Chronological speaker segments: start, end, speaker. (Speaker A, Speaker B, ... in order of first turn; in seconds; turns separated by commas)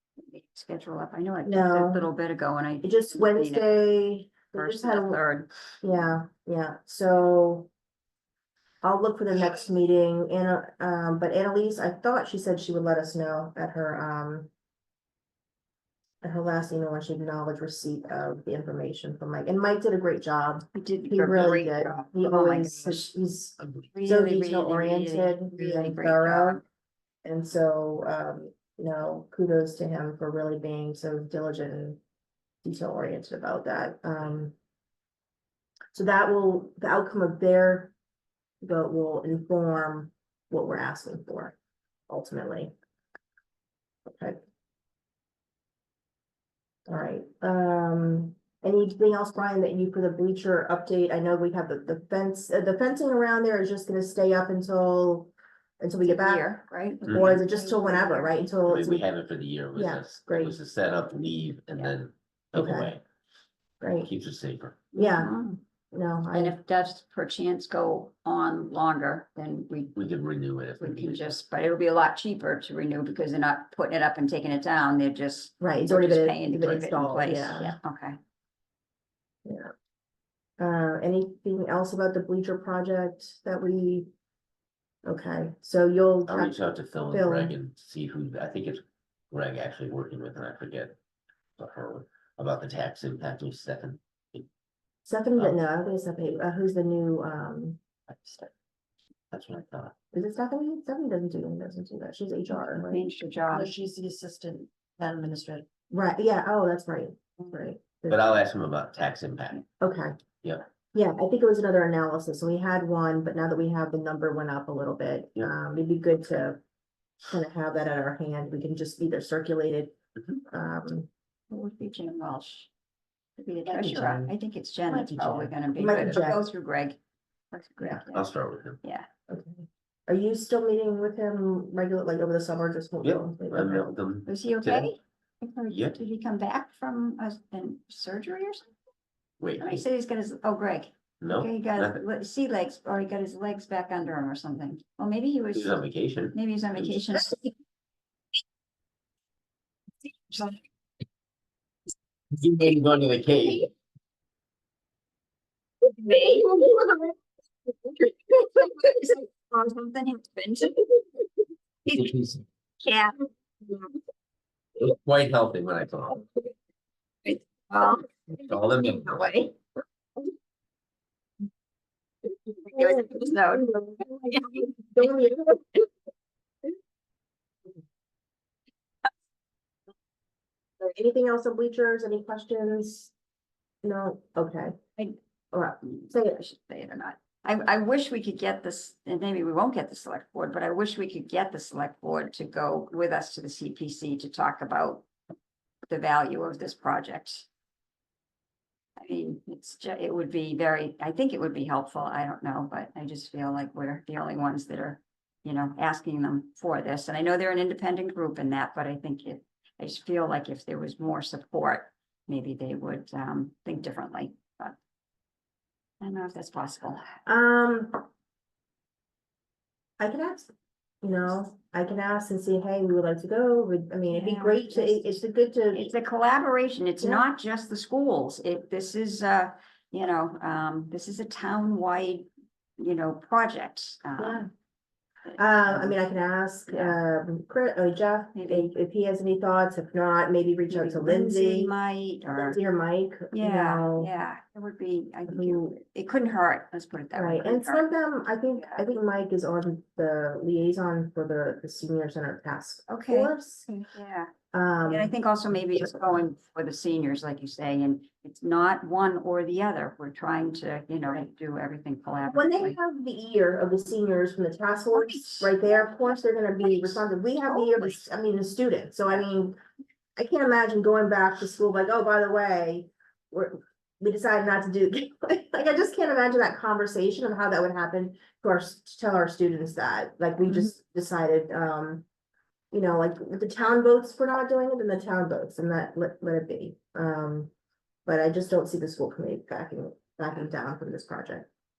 Speaker A: 0.2-3.7, Speaker B: 1.4-2.0, Speaker B: 2.8-5.2, Speaker A: 4.5-5.5, Speaker B: 5.8-7.7, Speaker B: 8.8-14.5, Speaker B: 16.2-26.6, Speaker A: 20.7-23.1, Speaker A: 23.9-26.6, Speaker B: 27.2-32.0, Speaker B: 32.6-34.5, Speaker B: 35.9-37.9, Speaker B: 38.6-41.5, Speaker B: 42.1-42.7, Speaker B: 44.1-44.4, Speaker B: 46.9-56.5, Speaker A: 56.0-58.3, Speaker B: 57.0-59.1, Speaker C: 58.7-63.0, Speaker B: 59.7-60.6, Speaker B: 62.5-62.9, Speaker B: 63.8-64.1, Speaker C: 64.0-64.8, Speaker A: 64.9-65.6, Speaker B: 65.0-65.3, Speaker B: 65.9-66.6, Speaker A: 66.3-70.0, Speaker C: 70.0-71.4, Speaker A: 70.8-78.2, Speaker B: 75.6-77.8, Speaker B: 79.4-79.7, Speaker B: 80.6-84.1, Speaker B: 85.0-86.6, Speaker C: 86.3-91.0, Speaker B: 87.1-87.6, Speaker C: 91.6-94.5, Speaker B: 95.0-97.8, Speaker C: 98.1-98.5, Speaker C: 99.3-99.9, Speaker B: 100.1-103.0, Speaker A: 102.6-103.7, Speaker D: 103.5-105.7, Speaker B: 105.9-108.4, Speaker C: 108.1-109.6, Speaker B: 109.8-110.2, Speaker B: 110.9-116.6, Speaker B: 117.3-120.0, Speaker B: 120.5-121.1, Speaker A: 121.5-122.7, Speaker A: 123.4-127.0, Speaker B: 123.6-124.3, Speaker B: 124.9-126.4, Speaker A: 127.5-128.3, Speaker C: 128.1-128.8, Speaker B: 129.3-133.9, Speaker C: 133.0-134.9, Speaker A: 134.2-138.7, Speaker C: 135.7-136.0, Speaker C: 139.4-139.8, Speaker A: 139.6-145.8, Speaker C: 141.2-142.0, Speaker C: 145.5-147.0, Speaker A: 146.3-147.5, Speaker A: 150.3-150.6, Speaker C: 152.3-153.7, Speaker A: 155.9-157.1, Speaker A: 157.8-160.9, Speaker C: 161.9-162.4, Speaker A: 162.8-163.9, Speaker C: 164.8-166.2, Speaker A: 167.2-169.5, Speaker C: 168.4-169.3, Speaker A: 172.6-175.2, Speaker B: 172.7-174.1, Speaker B: 174.9-175.6, Speaker B: 180.8-183.1, Speaker B: 183.8-184.8, Speaker B: 185.5-186.4, Speaker A: 185.9-195.1, Speaker A: 195.9-197.5, Speaker A: 199.0-214.8, Speaker A: 216.0-217.1, Speaker B: 217.2-218.0, Speaker B: 220.0-220.5, Speaker B: 221.0-225.9, Speaker A: 224.1-225.2, Speaker A: 225.7-232.3, Speaker A: 232.8-234.5, Speaker B: 234.2-234.5, Speaker A: 235.3-236.0, Speaker B: 235.4-241.7, Speaker A: 236.7-237.0, Speaker A: 238.3-238.7, Speaker A: 240.7-242.6, Speaker B: 242.3-244.1, Speaker A: 243.3-247.8, Speaker B: 245.3-245.8, Speaker B: 247.1-253.7, Speaker A: 248.6-248.8, Speaker A: 252.9-254.3, Speaker B: 254.5-255.2, Speaker A: 254.8-262.8, Speaker B: 262.2-269.6, Speaker A: 264.9-268.0, Speaker B: 270.2-282.0, Speaker B: 282.7-287.5, Speaker B: 288.1-291.5